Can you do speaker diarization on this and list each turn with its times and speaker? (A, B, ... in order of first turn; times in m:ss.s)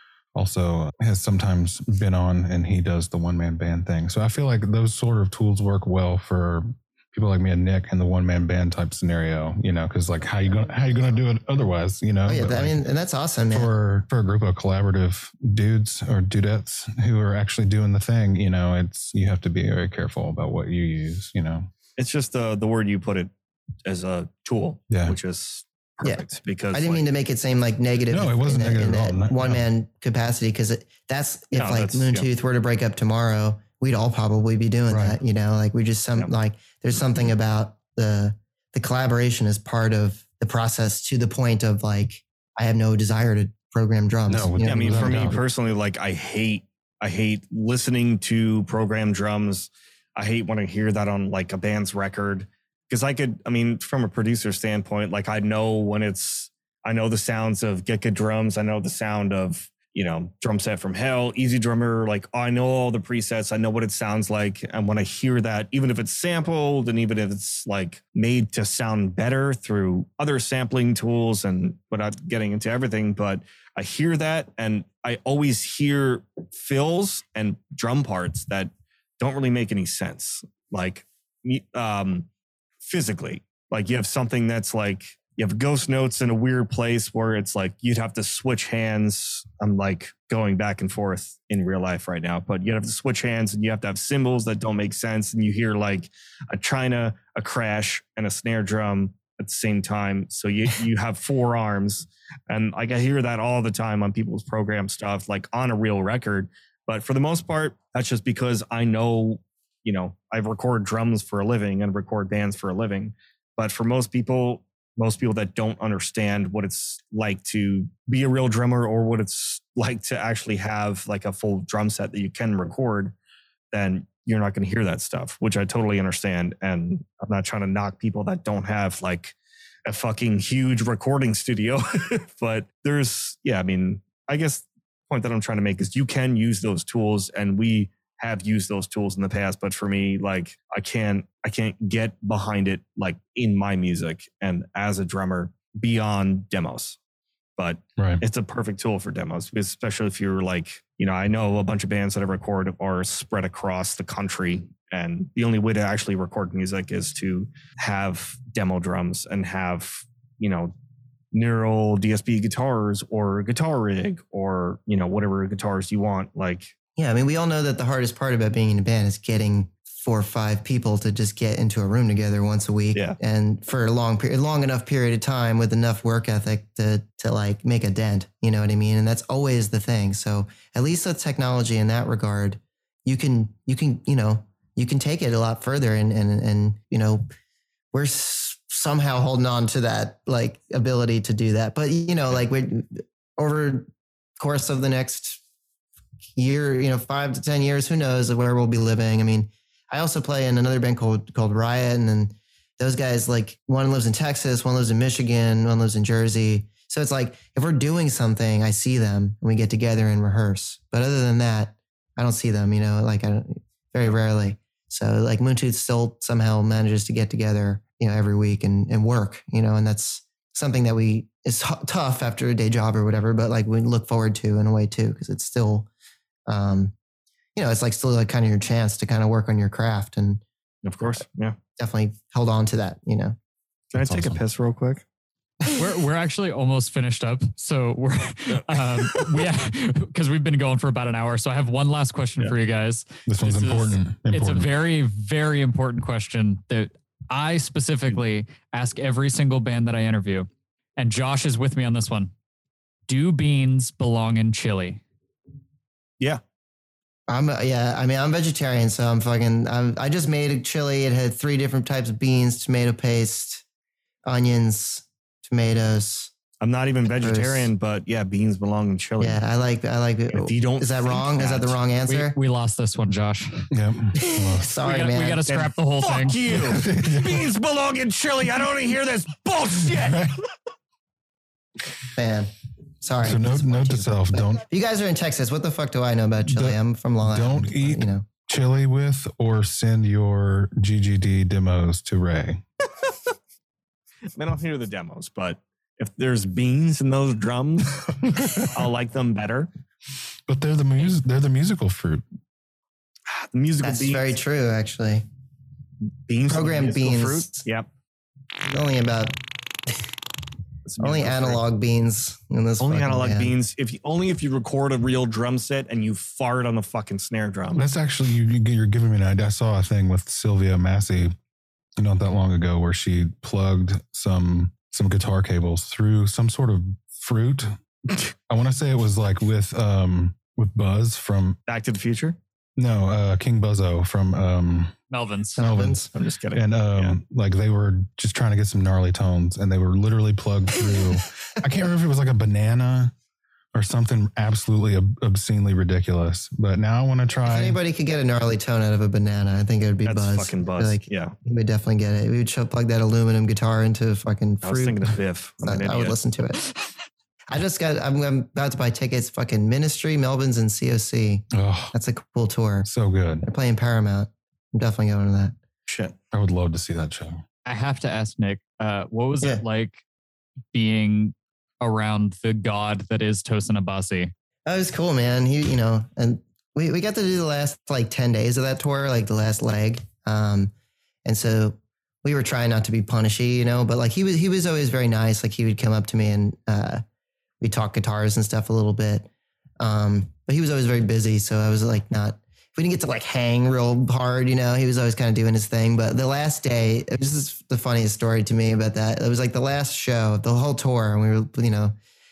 0:00.4-0:12.8 A
0:12.3-0:13.7 B
0:13.5-0:21.7 A
0:22.0-0:23.3 C
0:23.8-0:27.1 C
0:24.9-0:25.2 A
0:26.0-0:45.4 B
0:28.1-0:29.7 A
0:31.5-0:32.3 C
0:34.9-0:35.2 A
0:44.3-0:45.4 A
0:44.6-1:22.3 C
1:22.8-2:03.1 C
2:03.7-2:27.0 C
2:27.6-2:40.7 C
2:28.0-2:28.2 A
2:41.3-2:46.7 C
2:47.0-3:07.3 B
3:07.9-3:15.4 B
3:16.4-3:45.9 B
3:46.5-3:46.9 B
3:47.6-3:50.4 B
3:50.8-3:51.6 C
3:51.8-3:53.4 B
3:53.9-3:55.0 C
3:54.0-3:54.4 A
3:55.7-4:12.3 D
4:03.3-4:04.7 A
4:13.1-4:15.0 D
4:17.3-4:23.6 B
4:24.2-4:26.3 B
4:26.6-4:29.4 C
4:27.1-4:27.7 B
4:29.2-4:32.4 B
4:30.3-4:31.8 C
4:32.1-4:33.7 D
4:33.7-4:34.7 A
4:34.2-4:35.4 B
4:34.8-4:36.4 D
4:35.5-4:40.5 C
4:36.5-4:37.4 A
4:40.0-4:40.4 A
4:42.2-4:48.3 B
4:43.2-4:44.6 A
4:46.5-4:52.6 A
4:54.3-4:59.7 C
5:00.5-5:02.2 A
5:03.3-5:04.4 C
5:03.8-5:05.2 B
5:06.3-5:07.9 C
5:06.5-5:07.6 B
5:08.6-5:09.4 B
5:10.9-5:11.6 C
5:11.0-5:13.5 B
5:12.8-5:17.8 C
5:17.8-5:21.4 A
5:22.0-5:27.8 A
5:28.5-5:31.6 A
5:31.7-5:32.4 C
5:32.8-5:35.0 A
5:35.1-5:35.6 D
5:35.6-5:36.1 B
5:35.6-5:43.1 A
5:36.1-5:37.2 C
5:43.7-5:47.8 A
5:47.5-5:56.7 B
5:50.0-5:51.4 C
5:54.6-5:56.2 C
5:57.5-6:02.9 B
6:01.5-6:01.9 A
6:02.8-6:03.5 A
6:03.4-6:05.6 B
6:05.9-6:06.2 C
6:06.3-6:07.4 A
6:07.6-6:10.0 D
6:10.7-6:14.3 D
6:14.7-6:20.7 B
6:21.2-6:27.0 B
6:27.6-6:29.3 B
6:29.8-6:42.0 B